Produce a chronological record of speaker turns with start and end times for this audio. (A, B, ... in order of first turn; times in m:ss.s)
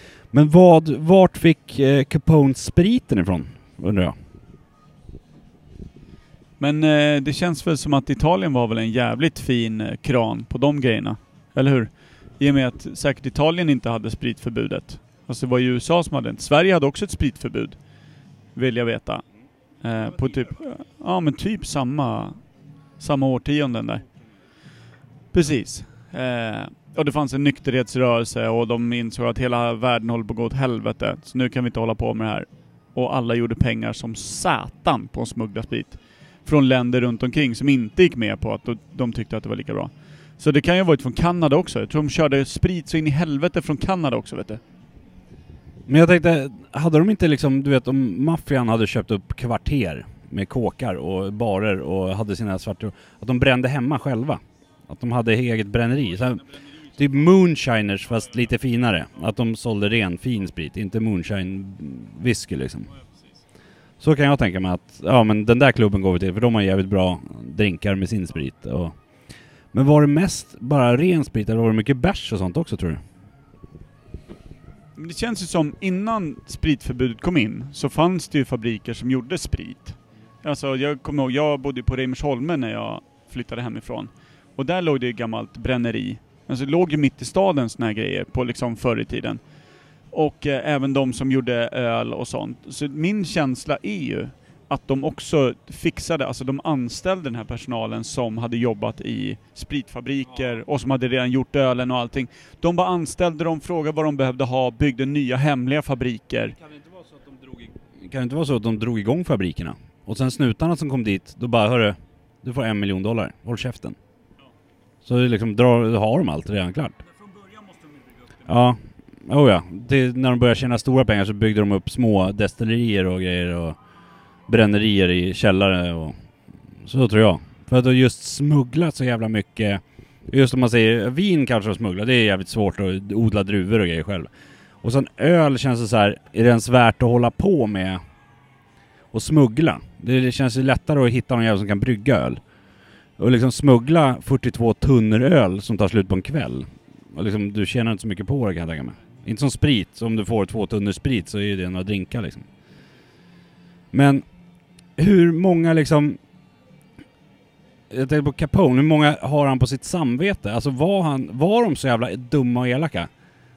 0:00.3-0:04.2 A
0:06.6-0:17.8 B
0:18.5-0:19.2 B
0:19.8-0:22.4 B
0:23.0-0:24.0 B
0:25.3-0:44.6 B
0:45.9-1:02.9 A
1:04.0-1:13.0 A
1:15.0-1:29.4 B
1:30.1-1:46.5 B
1:46.6-1:54.0 A
1:55.0-1:57.0 A
1:57.3-1:57.9 B
1:58.4-2:03.8 A
2:04.5-2:06.2 A
2:06.8-2:14.3 A
2:14.8-2:18.0 A
2:19.1-2:22.4 A
2:23.2-2:32.5 A
2:33.9-2:34.2 A
2:34.9-2:36.2 A
2:37.9-2:43.1 A